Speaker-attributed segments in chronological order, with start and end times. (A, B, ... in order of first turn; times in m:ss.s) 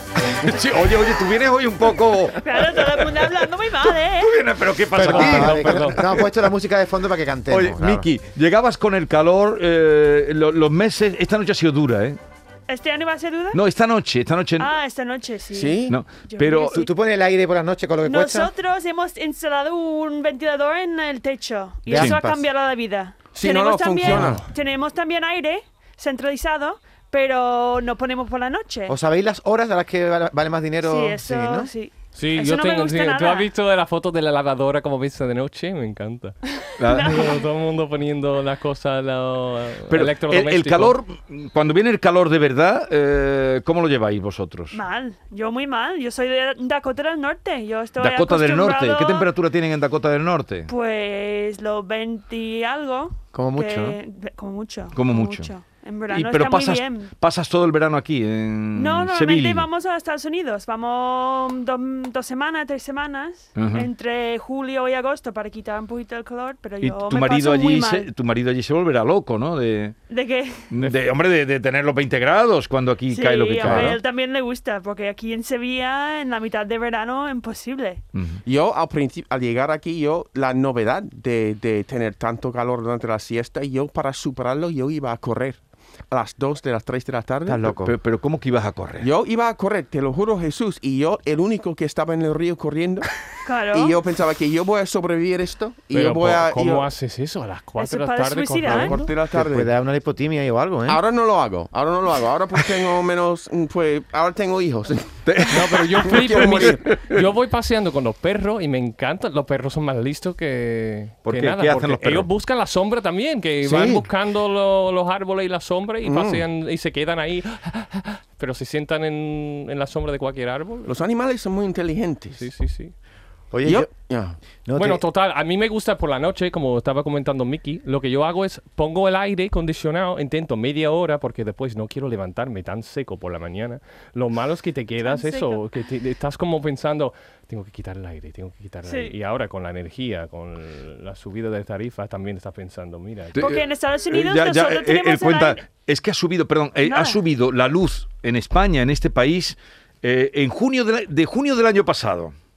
0:00.4-0:03.3 A
0:02.4-0:04.5 B
0:03.9-0:06.2 A
0:04.9-0:06.0 C
0:05.0-0:08.1 D
0:07.5-0:12.2 A
0:12.7-0:13.6 B
0:13.5-0:14.7 A
0:14.6-0:16.9 B
0:15.5-0:16.0 E
0:15.9-0:16.9 A
0:16.8-0:18.5 D
0:18.0-0:29.0 B
0:21.9-0:22.4 D
0:21.9-0:22.2 A
0:23.3-0:24.4 E
0:28.9-0:31.7 D
0:30.8-0:33.5 B
0:32.1-0:36.4 C
0:36.8-0:37.3 A
0:36.8-0:37.4 B
0:37.1-0:41.0 C
0:39.9-0:44.7 A
0:44.7-0:49.3 B
0:48.0-0:50.7 A
0:50.7-0:57.1 B
0:53.3-0:54.0 D
0:54.9-0:55.5 A
0:56.1-0:59.7 A
0:58.7-1:08.1 B
1:03.6-1:03.9 A
1:06.8-1:10.0 A
1:10.1-1:10.8 B
1:10.7-1:14.0 A
1:13.1-1:18.0 B
1:18.1-1:18.4 A
1:18.4-1:25.6 E
1:26.1-1:27.7 E
1:27.5-1:27.9 D
1:27.8-1:29.1 A
1:29.0-1:33.1 E
1:33.4-1:34.0 B
1:33.7-1:36.9 E
1:35.9-1:39.1 C
1:37.8-1:39.0 B
1:38.6-1:39.7 E
1:39.3-1:41.0 D
1:40.9-1:46.9 E
1:45.2-1:47.2 A
1:45.5-2:00.9 C
1:51.2-1:52.3 A
1:53.6-1:54.0 D
1:56.0-1:56.4 E
2:00.9-2:02.5 E
2:02.4-2:02.9 C
2:03.5-2:04.1 D
2:03.6-2:04.4 E
2:04.6-2:05.0 D
2:04.8-2:23.5 C
2:15.0-2:15.6 B
2:18.8-2:19.1 B
2:23.4-2:32.3 A
2:23.4-2:25.7 B
2:26.8-2:27.2 B